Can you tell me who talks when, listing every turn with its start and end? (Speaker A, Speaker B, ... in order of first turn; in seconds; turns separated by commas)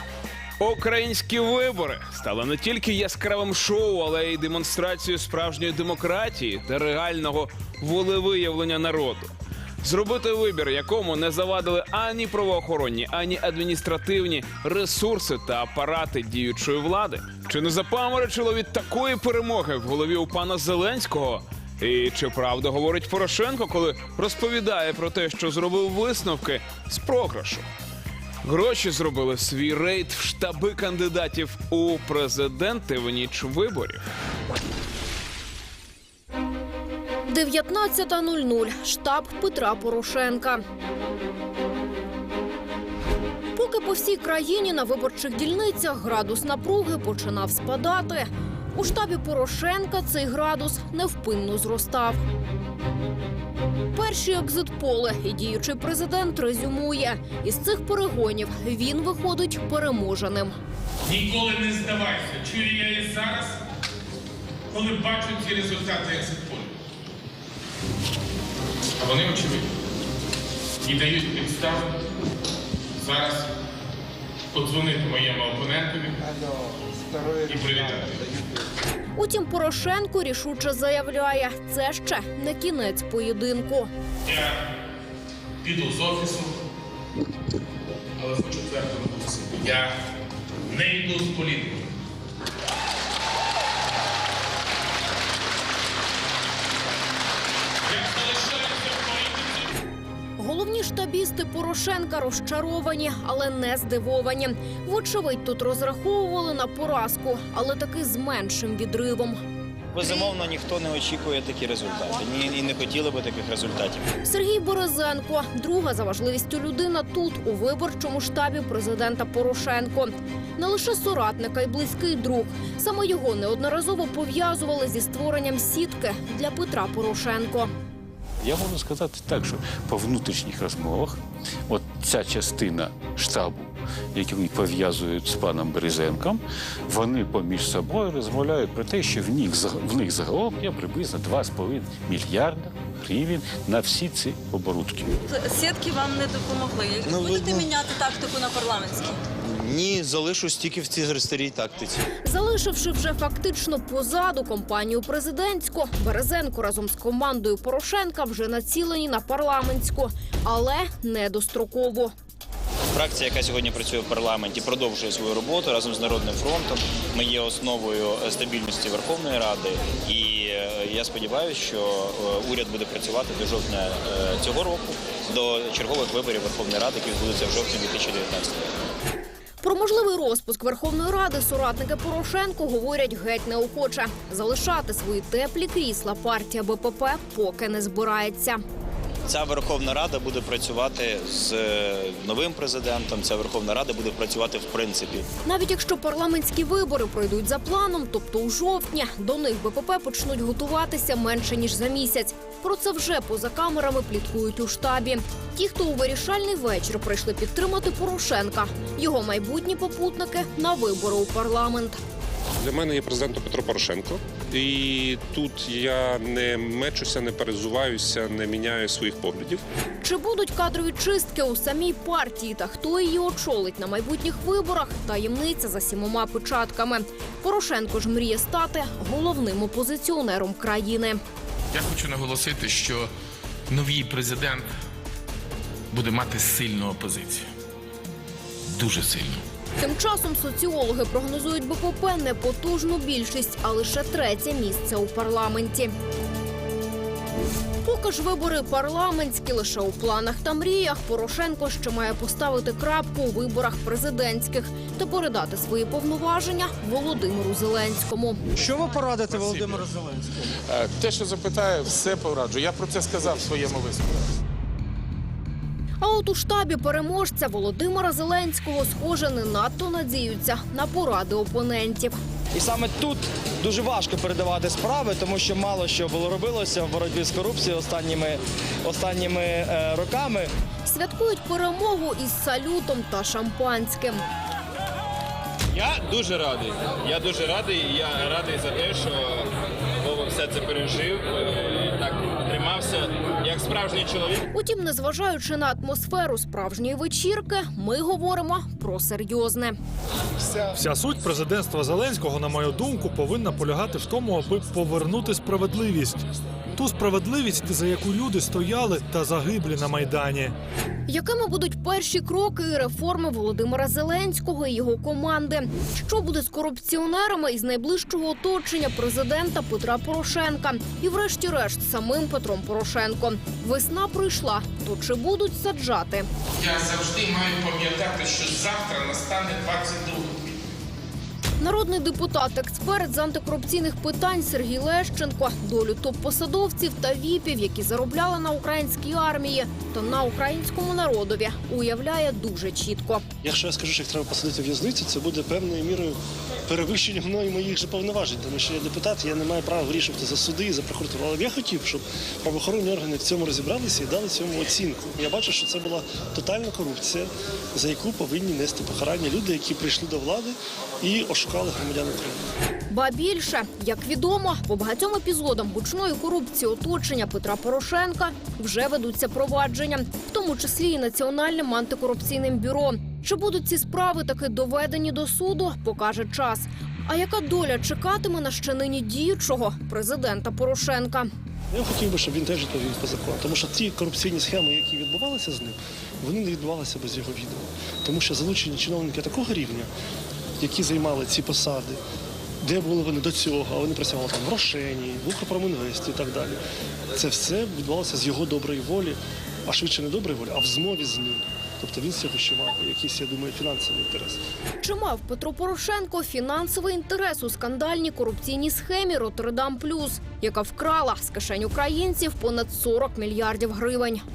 Speaker A: 0.6-9.3, Speaker A: 9.8-27.6, Speaker A: 28.4-34.0, Speaker B: 37.3-40.6, Speaker B: 43.5-52.2, Speaker B: 53.9-60.6, Speaker C: 61.1-63.6, Speaker C: 64.7-66.7, Speaker C: 69.0-69.7, Speaker C: 70.8-71.9, Speaker C: 73.0-73.5, Speaker C: 74.5-76.3, Speaker C: 77.4-78.3, Speaker B: 79.2-83.9, Speaker C: 84.2-84.6, Speaker C: 85.6-86.5, Speaker C: 88.2-90.0, Speaker C: 90.7-91.8, Speaker C: 97.8-99.7, Speaker B: 100.4-109.4, Speaker D: 109.9-114.1, Speaker B: 110.0-110.3, Speaker B: 114.2-127.7, Speaker E: 128.4-145.1, Speaker F: 145.3-149.2, Speaker B: 152.2-162.1, Speaker D: 162.9-178.6, Speaker B: 179.6-188.6, Speaker D: 189.3-195.3, Speaker B: 195.4-212.0, Speaker G: 212.6-219.6, Speaker B: 220.0-231.2, Speaker C: 231.7-233.1, Speaker C: 233.7-234.7, Speaker C: 235.9-237.5, Speaker C: 238.7-239.4, Speaker B: 239.8-245.9, Speaker B: 247.8-258.4, Speaker H: 258.6-260.0, Speaker C: 259.1-259.9, Speaker C: 260.7-264.2, Speaker B: 266.0-272.2, Speaker H: 272.5-280.5, Speaker B: 280.9-284.2, Speaker I: 285.7-294.4, Speaker B: 294.5-299.8, Speaker J: 300.7-306.2, Speaker J: 306.8-310.6, Speaker B: 311.1-326.3, Speaker C: 326.6-330.5, Speaker B: 331.6-343.2, Speaker K: 343.4-362.5, Speaker B: 362.9-381.3, Speaker K: 381.7-389.9, Speaker K: 390.6-392.0, Speaker K: 392.6-396.6, Speaker K: 397.1-404.4, Speaker B: 404.8-414.2